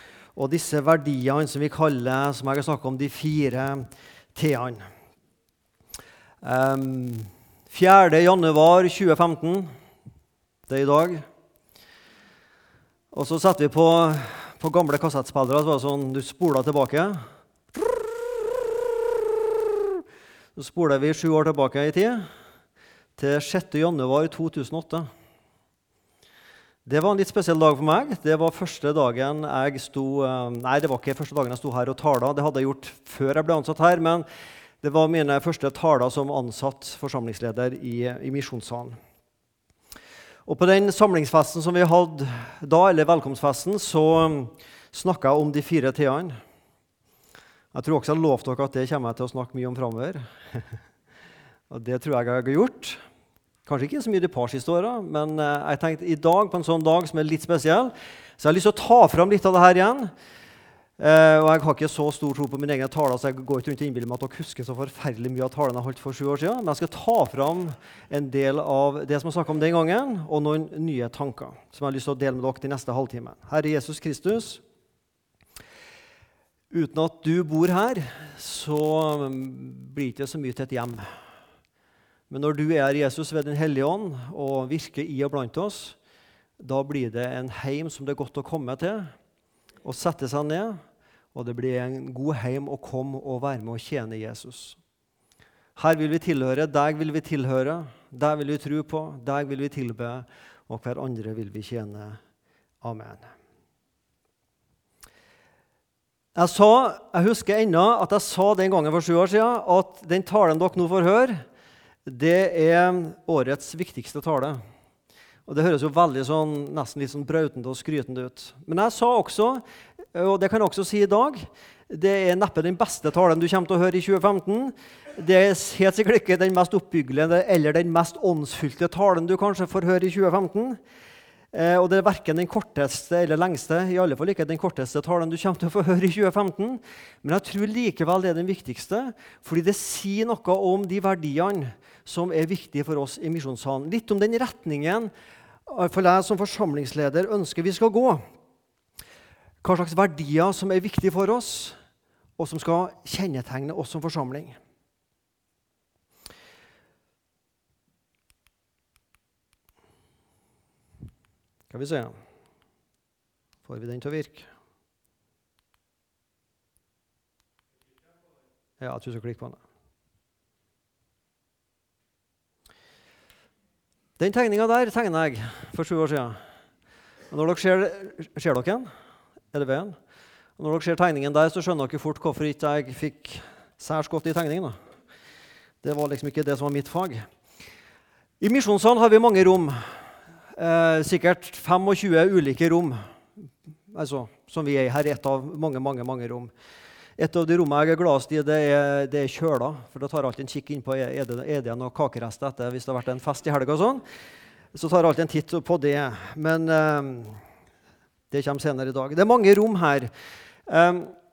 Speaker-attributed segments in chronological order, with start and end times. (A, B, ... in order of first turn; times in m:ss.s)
0:00.3-0:03.8 A
0:04.3-0:04.8 A
0:06.4-0:09.7 A
0:10.7-0:11.2 A
0:13.1-0:17.2 A
0:20.6-0:22.3 A
0:23.2-0:25.1 A
0:26.8-0:34.2 A
0:34.8-0:39.0 A
0:40.4-0:46.4 A
0:47.7-0:50.7 A
0:51.7-0:53.0 A
0:53.6-1:00.1 A
1:01.0-1:14.6 A
1:16.7-1:21.1 A
1:22.3-1:26.0 A
1:26.6-1:29.1 A
1:29.8-1:30.8 A
1:31.3-1:34.8 A
1:35.8-1:42.2 A
1:42.8-1:43.3 A
1:46.4-1:51.4 A
1:52.0-1:54.6 A
1:55.4-1:59.6 A
2:00.1-2:10.8 A
2:11.5-2:25.1 A
2:25.6-2:28.2 A
2:29.6-2:31.8 A
2:32.4-2:34.6 A
2:41.7-2:42.2 A
2:43.6-2:44.5 A
2:48.8-2:49.6 A
2:54.2-2:56.4 A
2:57.3-2:58.9 A
2:59.5-3:00.0 A
3:00.6-3:04.8 A
3:05.8-3:07.2 A
3:08.4-3:10.0 A
3:10.5-3:13.0 A
3:13.9-3:16.5 A
3:17.2-3:24.0 A
3:24.7-3:27.4 A
3:28.3-3:30.1 A
3:30.7-3:31.1 A